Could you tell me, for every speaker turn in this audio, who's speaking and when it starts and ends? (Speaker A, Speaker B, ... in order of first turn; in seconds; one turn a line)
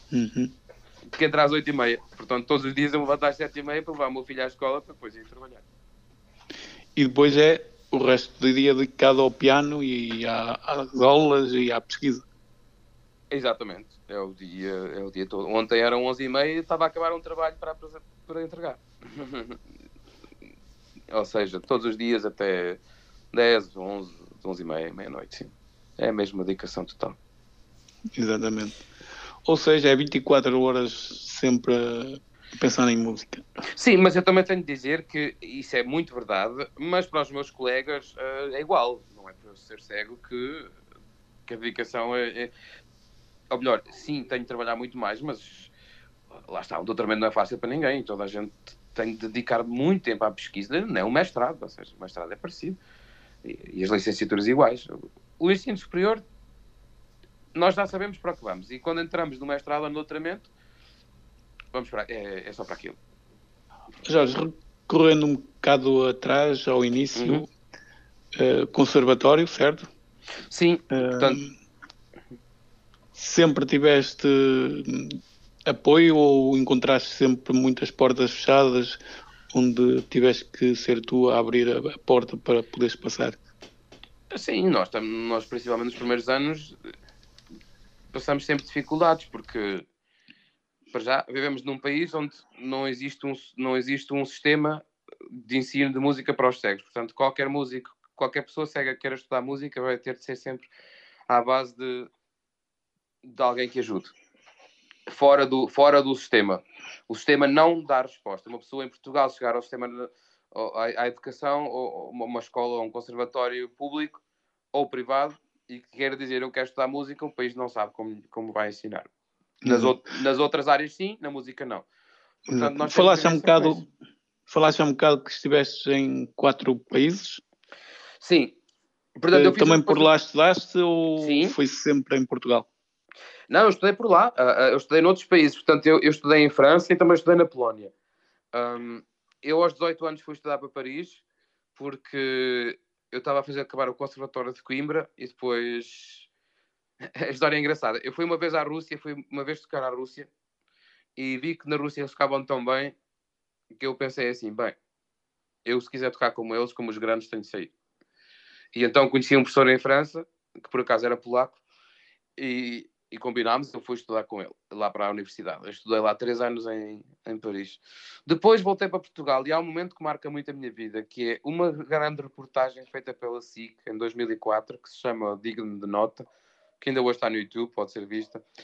Speaker A: 0.1-0.5
Speaker B: 1.1-5.6
Speaker A: 7.0-12.2
Speaker B: 13.3-19.6
Speaker B: 21.1-22.8
Speaker B: 23.3-27.2
Speaker A: 28.1-28.8
Speaker A: 29.4-33.4
Speaker B: 33.8-40.7
Speaker B: 41.5-42.5
Speaker B: 43.5-45.7
Speaker B: 46.5-52.8
Speaker B: 53.4-56.2
Speaker B: 57.5-60.5
Speaker B: 61.7-63.0
Speaker A: 64.0-67.5
Speaker B: 67.2-67.4
Speaker A: 68.3-69.9
Speaker B: 70.5-71.4
Speaker A: 70.9-71.5
Speaker A: 73.2-79.0
Speaker A: 79.5-83.4
Speaker B: 84.3-86.7
Speaker B: 88.1-89.8
Speaker B: 90.9-94.8
Speaker B: 95.4-100.7
Speaker B: 101.3-102.1
Speaker B: 103.2-104.1
Speaker B: 105.1-114.2
Speaker B: 114.7-119.1
Speaker A: 119.6-120.0
Speaker B: 119.7-121.8
Speaker B: 122.5-123.8
Speaker A: 122.5-123.9
Speaker A: 124.5-127.4
Speaker B: 128.2-128.5
Speaker B: 129.2-130.1
Speaker A: 129.3-132.7
Speaker B: 131.2-131.5
Speaker B: 133.5-137.9
Speaker B: 138.5-141.2
Speaker B: 141.8-146.3
Speaker B: 147.2-150.3
Speaker B: 151.2-152.9
Speaker B: 153.7-154.8
Speaker B: 155.6-157.7
Speaker B: 158.7-161.6
Speaker B: 162.4-176.2
Speaker B: 176.8-178.4